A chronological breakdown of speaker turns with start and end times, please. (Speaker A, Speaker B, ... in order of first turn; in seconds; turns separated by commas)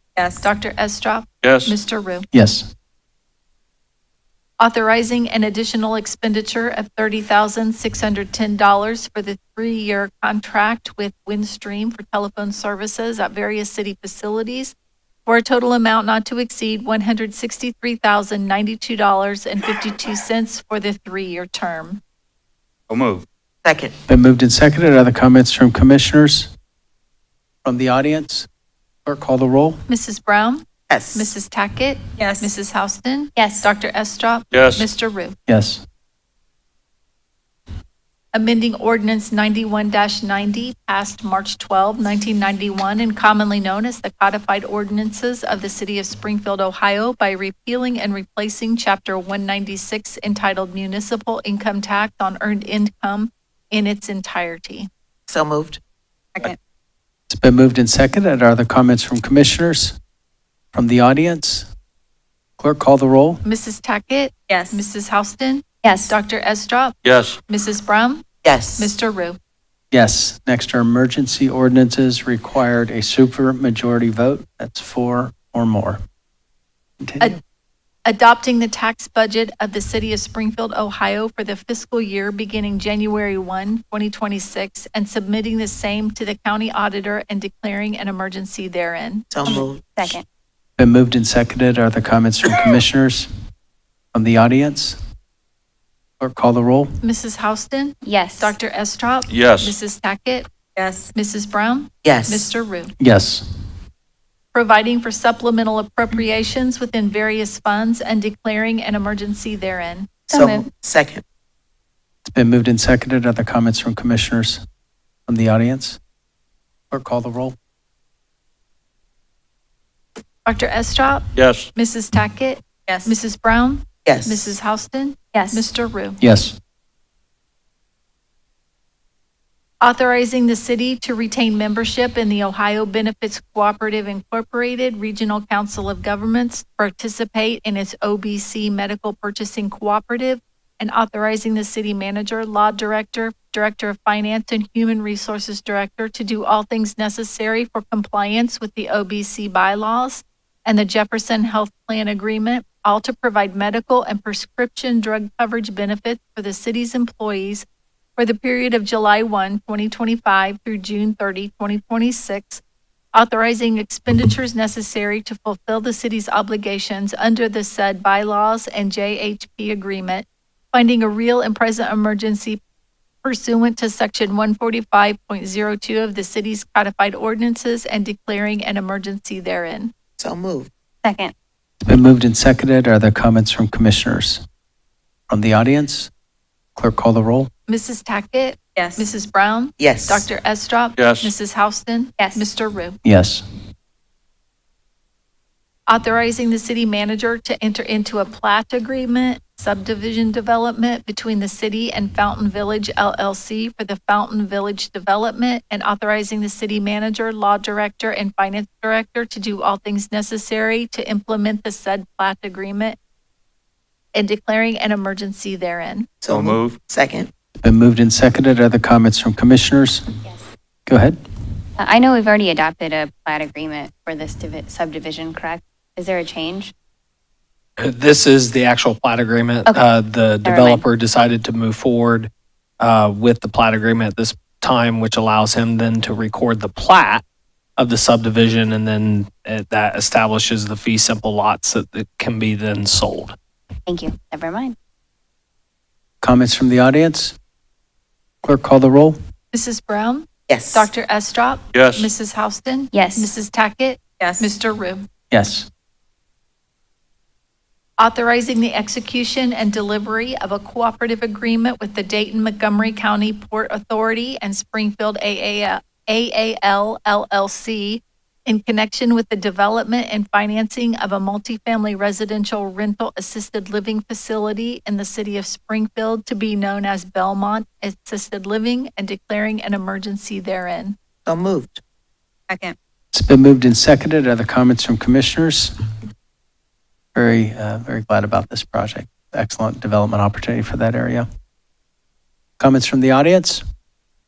Speaker A: 0.2-0.5, Speaker B: 0.4-2.3, Speaker C: 1.4-1.7, Speaker D: 2.3-2.7, Speaker B: 4.6-14.7, Speaker B: 15.2-22.0, Speaker C: 22.9-23.2, Speaker E: 23.6-23.9, Speaker D: 24.1-26.5, Speaker D: 27.6-28.5, Speaker D: 29.1-29.8, Speaker B: 29.9-35.4, Speaker E: 30.9-31.3, Speaker A: 32.2-32.5, Speaker F: 33.4-33.7, Speaker C: 34.5-34.9, Speaker D: 35.5-35.8, Speaker B: 38.3-54.9, Speaker E: 55.3-55.8, Speaker D: 57.3-60.0, Speaker D: 60.7-61.7, Speaker D: 62.6-63.4, Speaker B: 63.4-69.4, Speaker A: 64.5-64.8, Speaker F: 65.8-66.1, Speaker C: 67.0-67.4, Speaker E: 68.4-68.9, Speaker D: 69.9-76.0, Speaker D: 77.0-77.4, Speaker B: 78.0-89.3, Speaker E: 89.3-89.8, Speaker F: 89.5-90.2, Speaker D: 90.8-93.3, Speaker D: 94.1-95.0, Speaker D: 96.2-97.0, Speaker B: 97.0-100.5, Speaker F: 98.0-98.5, Speaker C: 99.3-99.7, Speaker A: 100.8-101.1, Speaker B: 101.1-102.9, Speaker E: 102.0-102.5, Speaker D: 103.0-103.4, Speaker B: 104.5-110.1, Speaker F: 110.3-110.7, Speaker E: 110.3-111.2, Speaker D: 112.2-114.6, Speaker D: 115.3-116.0, Speaker D: 116.9-117.5, Speaker B: 120.5-126.2, Speaker C: 121.3-121.7, Speaker A: 122.9-123.1, Speaker E: 124.0-124.5, Speaker F: 125.3-125.7, Speaker D: 126.2-126.6, Speaker B: 129.8-157.6, Speaker B: 158.2-162.6, Speaker B: 163.1-172.6, Speaker B: 173.2-179.9, Speaker E: 180.2-180.7, Speaker F: 181.0-181.3, Speaker D: 181.8-184.4, Speaker D: 185.3-186.1, Speaker D: 186.8-187.5, Speaker B: 187.7-193.0, Speaker A: 188.8-189.1, Speaker E: 189.8-190.3, Speaker C: 191.0-191.3, Speaker F: 192.2-192.4, Speaker D: 193.0-193.4, Speaker B: 195.9-213.0, Speaker B: 214.1-216.1, Speaker E: 216.2-217.3, Speaker C: 216.3-216.8, Speaker D: 217.6-220.0, Speaker D: 220.9-221.2, Speaker F: 221.8-226.7, Speaker G: 227.8-237.2, Speaker F: 230.4-230.8, Speaker G: 237.8-243.3, Speaker F: 243.8-244.7, Speaker D: 246.2-247.3, Speaker D: 248.4-249.2, Speaker B: 249.5-255.1, Speaker E: 250.5-250.9, Speaker C: 251.7-252.1, Speaker F: 252.9-253.3, Speaker A: 254.2-254.5, Speaker D: 255.3-255.7, Speaker B: 258.0-280.9, Speaker E: 281.2-281.8, Speaker A: 282.5-282.8, Speaker D: 283.1-285.7, Speaker D: 287.1-291.2, Speaker D: 292.6-293.6